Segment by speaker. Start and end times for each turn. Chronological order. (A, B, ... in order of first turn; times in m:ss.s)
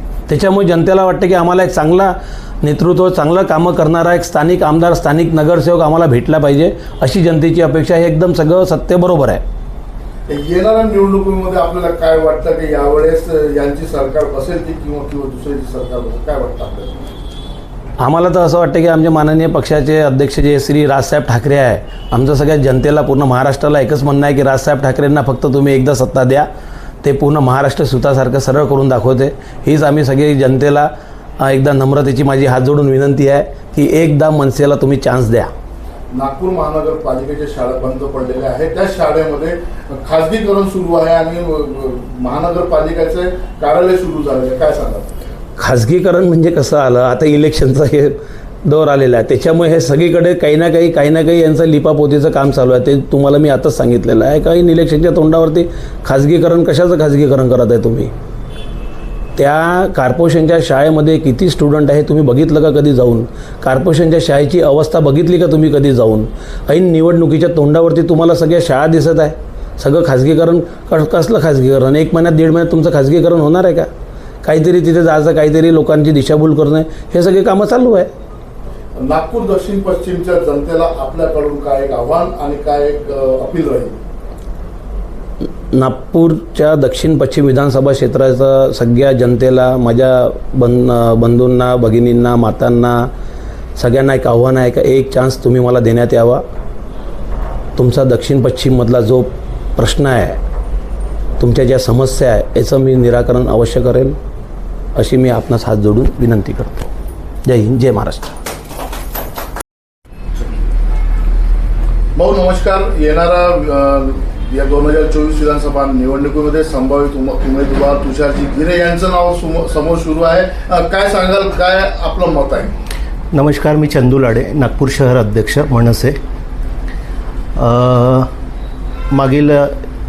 0:00.3-0:09.4 A
0:10.3-0:17.0 B
0:18.0-0:26.5 A
0:27.0-0:35.5 A
0:36.1-0:45.1 B
0:45.6-0:58.1 A
0:59.4-1:13.9 A
1:14.4-1:18.1 A
1:19.0-1:24.0 B
1:25.7-1:33.1 A
1:33.8-1:36.4 A
1:37.8-1:40.4 A
1:41.4-1:44.2 A
1:44.9-1:46.9 A
1:47.4-1:48.4 A
1:52.1-2:02.7 B
2:03.3-2:06.2 C
2:07.5-2:08.3 C
2:09.1-2:09.7 C